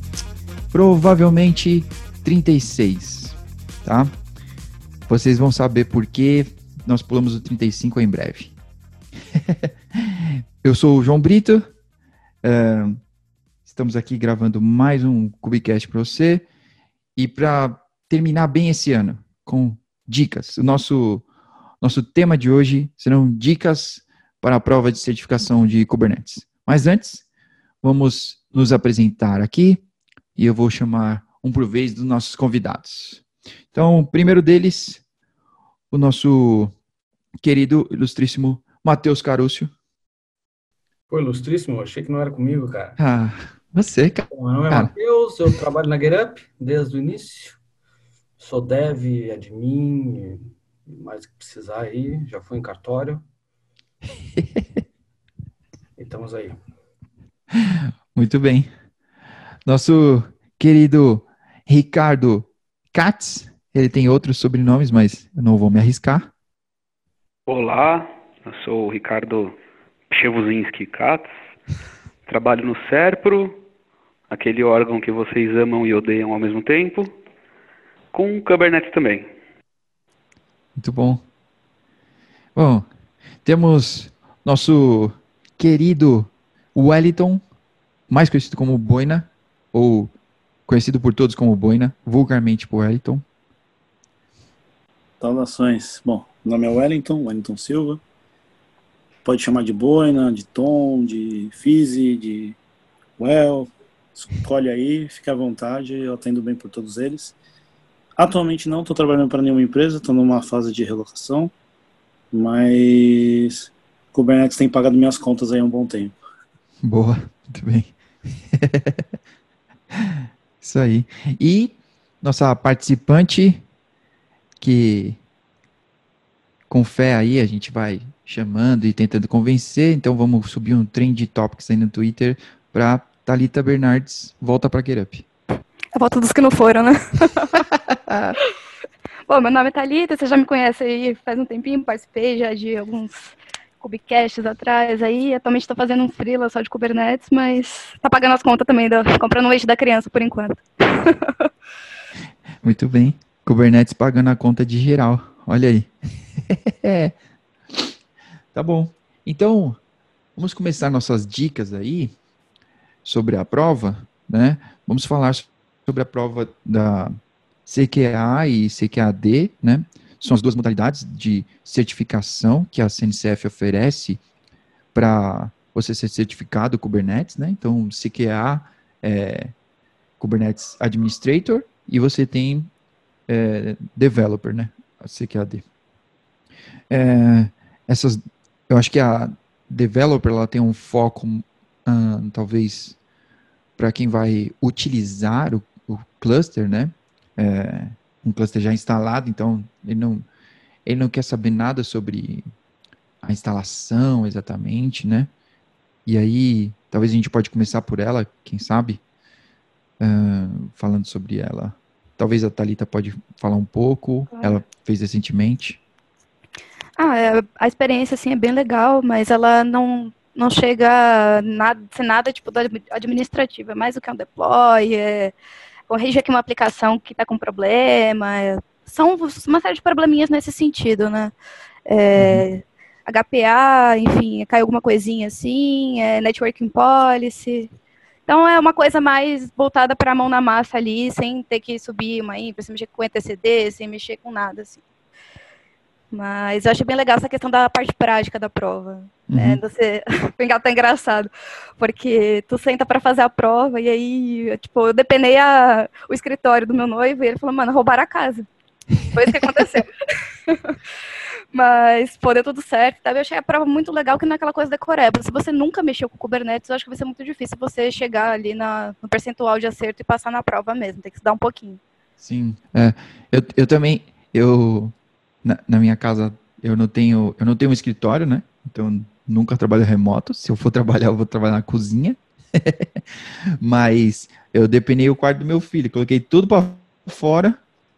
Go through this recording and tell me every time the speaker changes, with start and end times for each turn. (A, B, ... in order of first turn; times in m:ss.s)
0:00.7-0:04.1 A
0:05.1-0:08.5 A
0:09.3-0:11.7 A
0:12.4-0:13.0 A
0:13.7-0:16.4 A
0:17.2-0:21.2 A
0:21.8-0:27.2 A
0:27.8-0:29.8 A
0:30.4-0:33.2 A
0:33.7-0:35.0 A
0:35.9-0:36.7 A
0:37.4-0:39.7 A
0:41.1-0:43.0 B
0:43.0-0:44.9 A
0:44.3-0:47.6 B
0:48.4-0:53.2 B
0:54.3-0:54.8 A
0:56.0-0:56.6 B
0:57.6-0:58.7 A
0:59.7-1:06.3 A
1:07.5-1:09.6 C
1:10.1-1:11.3 C
1:12.3-1:13.6 C
1:14.3-1:17.1 C
1:18.1-1:19.3 C
1:20.8-1:21.2 A
1:22.6-1:22.9 A
1:23.4-1:27.4 A
1:28.1-1:30.1 A
1:30.7-1:33.2 A
1:35.2-1:38.0 D
1:39.2-1:42.6 D
1:43.2-1:47.4 D
1:48.2-1:51.5 D
1:52.3-1:56.2 D
1:56.8-1:59.1 A
1:59.9-2:03.6 A
2:04.6-2:05.2 A
2:06.7-2:15.2 A
2:15.9-2:17.6 E
2:17.7-2:18.4 A
2:19.3-2:31.5 E
2:32.6-2:37.1 A
2:38.5-2:39.8 A
2:40.4-2:42.2 A
2:43.0-2:47.2 A
2:47.7-2:54.2 A
2:54.9-2:59.5 A
3:00.2-3:02.7 A
3:03.3-3:05.6 A
3:06.9-3:13.0 A
3:13.8-3:20.3 A
3:20.9-3:22.5 A
3:23.2-3:25.3 A
3:26.1-3:29.0 A
3:30.0-3:35.8 A
3:37.0-3:45.3 E
3:45.9-3:51.3 E
3:51.9-3:57.7 E
3:52.2-3:52.5 A
3:58.3-4:04.8 E
4:06.1-4:18.5 E
4:09.3-4:09.6 A
4:19.1-4:20.0 E
4:20.5-4:20.8 E
4:21.5-4:31.8 E
4:32.2-4:43.0 A
4:43.6-4:47.6 A